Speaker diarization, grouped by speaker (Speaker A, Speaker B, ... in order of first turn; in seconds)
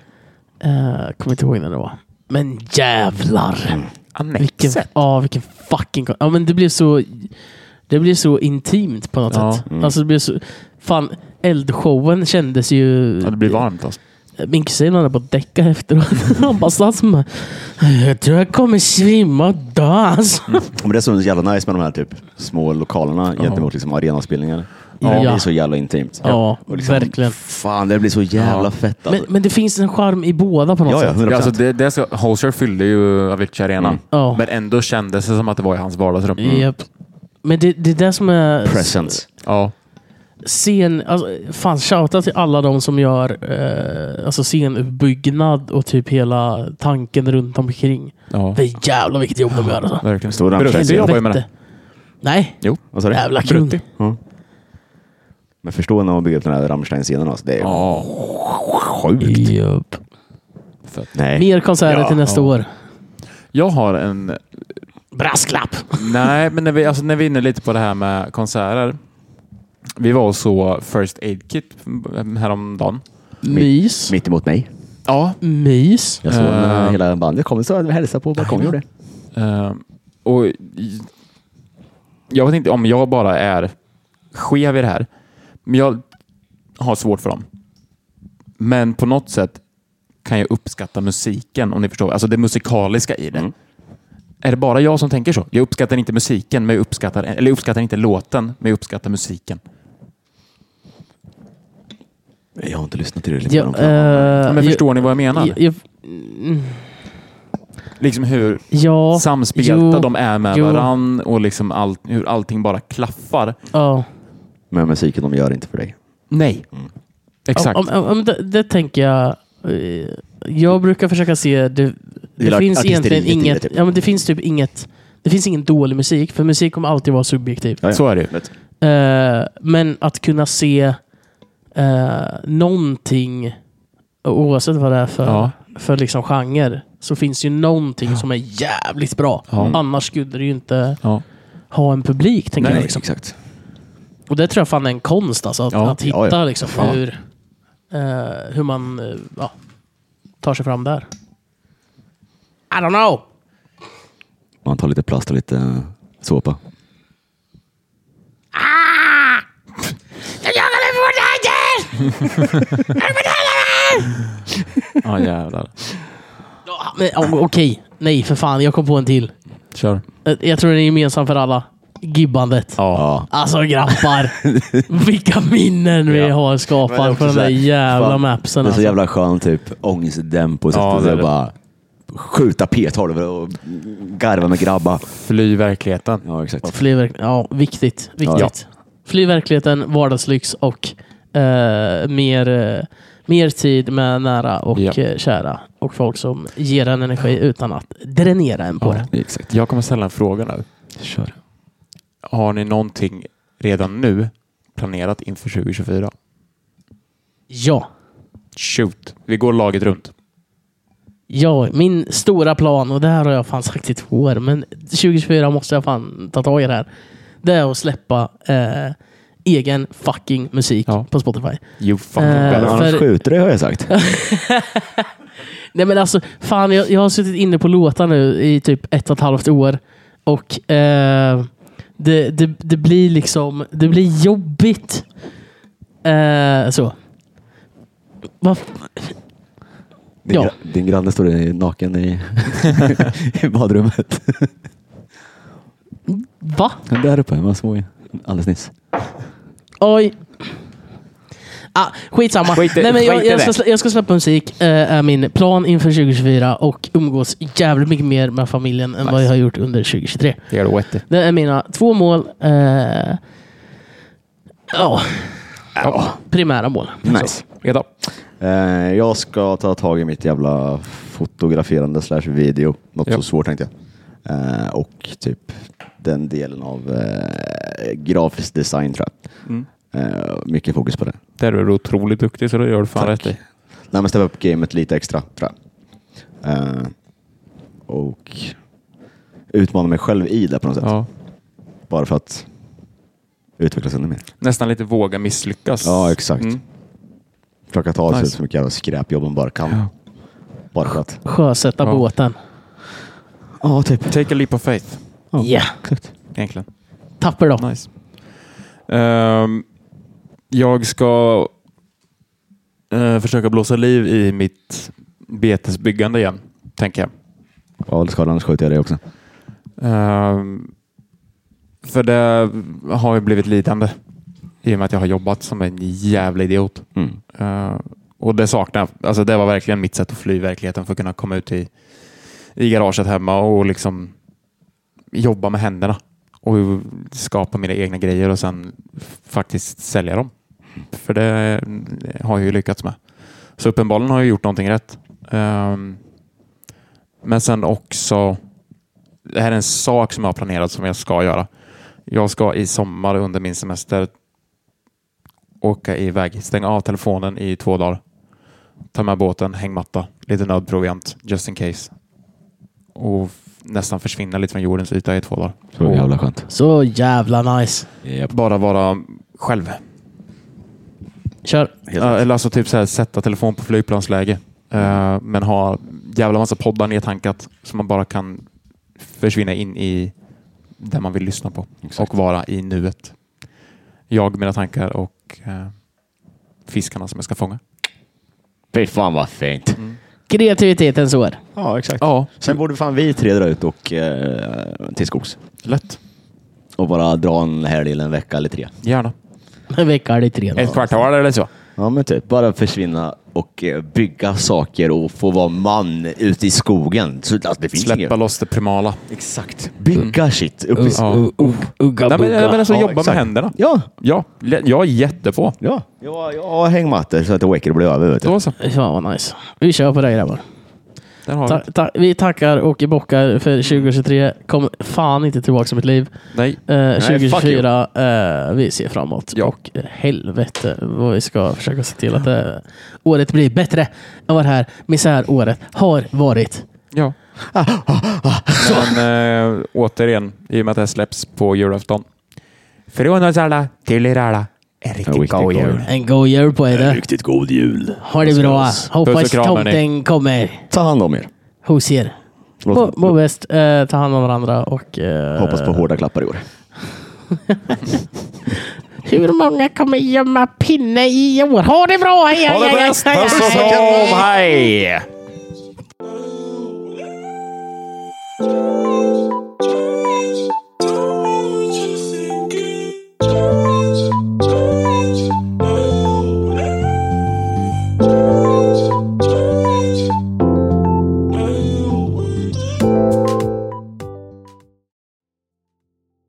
Speaker A: 0.6-3.8, 4.4-7.3, 7.9-13.6, 14.4-20.7, 25.0-25.5, 26.2-27.4, 29.1-31.2, 34.1-34.4, 36.4-36.9, 37.4-39.1, 40.4-51.5, 52.2-53.8, 59.2-60.0, 61.3-62.7, 65.1-66.3, 73.4-74.2, 75.4-76.2, 103.5-107.0, 108.7-110.9, 113.7-114.1, 117.6-127.9, 128.8-131.0, 131.8-133.6, 134.2-141.0, 141.7-143.0, 144.3-147.2, 147.9-149.5, 150.4-151.1, 152.7-153.2, 158.6-159.4, 160.4-164.2, 166.7-169.3, 170.2-178.9, 186.6-199.1, 207.5-207.9, 211.3-216.9, 217.4-221.6, 222.2-223.2, 223.9-225.1, 225.7-235.1, 236.0-236.9, 238.4-239.2, 246.1-246.8, 249.8-250.5, 251.7-260.5, 261.1-263.2, 264.7-265.7, 266.2-267.1, 301.2-302.4, 305.4-305.8, 307.2-307.6, 366.5-367.9, 371.4-371.7, 390.3-391.4, 399.7-401.0, 410.8-412.6, 418.6-420.4, 421.5-426.1, 426.7-436.6, 445.9-447.0, 448.0-450.7, 451.6-452.2, 452.7-455.9, 457.5-458.0, 459.1-464.1
Speaker B: 4.2-4.9, 9.3-9.6, 13.2-14.0, 23.4-23.7, 25.0-25.3, 28.4-28.7, 31.3-36.7, 39.4-39.7, 48.3-48.6, 49.7-51.4, 53.4-53.8, 57.6-58.1, 62.2-62.5, 63.5-64.4, 66.0-69.0, 70.0-73.0, 75.1-75.4, 76.3-77.0, 79.3-81.1, 82.3-83.8, 84.3-85.1, 85.7-86.0, 86.8-87.5, 88.6-89.6, 90.2-93.5, 94.4-99.6, 104.5-105.6, 108.0-113.6, 116.3-116.7, 117.5-117.8, 127.9-128.3, 135.2-135.5, 139.5-139.8, 142.6-142.9, 145.7-146.0, 146.7-147.0, 162.6-162.8, 165.0-165.8, 169.8-170.0, 172.8-173.1, 176.1-176.3, 180.7-181.3, 185.1-186.2, 198.8-200.7, 202.3-206.1, 208.6-210.1, 221.8-222.8, 252.5-253.6, 260.5-261.1, 267.1-267.9, 281.4-283.4, 290.8-291.1, 294.4-296.6, 298.1-298.4, 304.1-305.0, 306.3-306.7, 307.6-307.9, 308.9-309.6, 310.5-311.5, 312.9-317.1, 319.8-320.7, 321.8-323.9, 324.6-331.7, 332.6-334.1, 335.1-340.3, 340.9-343.0, 343.6-346.0, 347.2-348.4, 349.3-351.5, 352.1-354.1, 355.6-358.0, 358.9-361.9, 362.9-366.1, 368.3-369.8, 372.0-378.5, 379.0-380.1, 380.8-383.1, 384.1-385.8, 386.7-387.6, 392.0-392.4, 395.6-396.0, 398.8-399.1, 400.6-401.5, 407.8-409.0, 410.9-411.5, 412.1-415.6, 418.2-418.6, 421.3-421.6, 426.3-426.6, 438.6-442.1, 442.9-445.9, 449.0-449.8, 462.4-465.1
Speaker C: 9.7-9.9, 20.7-29.3, 30.9-31.6, 38.6-39.3, 50.3-51.2, 52.9-53.2, 53.9-54.2, 55.6-59.5, 61.1-62.2, 73.5-74.7, 76.2-78.9, 102.6-104.6, 114.7-116.0, 122.4-123.8, 127.8-128.5, 142.6-143.3, 146.0-146.9, 154.6-156.6, 172.9-173.3, 174.4-174.8, 176.8-181.6, 182.1-185.1, 186.2-186.7, 188.2-188.5, 199.1-199.5, 201.0-201.3, 222.5-223.9, 240.2-244.5, 246.9-248.7, 265.8-266.2, 267.0-267.4, 268.4-273.7, 274.2-279.2, 279.9-281.2, 283.0-283.4, 283.9-285.5, 286.4-286.9, 287.9-288.6, 289.5-290.9, 291.9-292.5, 293.6-294.2, 295.8-296.5, 297.7-299.9, 300.7-301.2, 303.6-304.2, 305.3-306.1, 317.9-319.0, 365.8-366.5, 368.1-368.3, 371.9-372.2, 388.7-389.8, 391.6-395.4, 396.8-398.7, 401.8-408.1, 409.1-411.6, 412.6-413.9, 415.6-418.4, 427.0-427.7, 437.5-439.0, 445.1-445.9, 446.7-448.9, 450.7-451.3, 452.6-453.1, 455.4-456.4, 463.3-464.2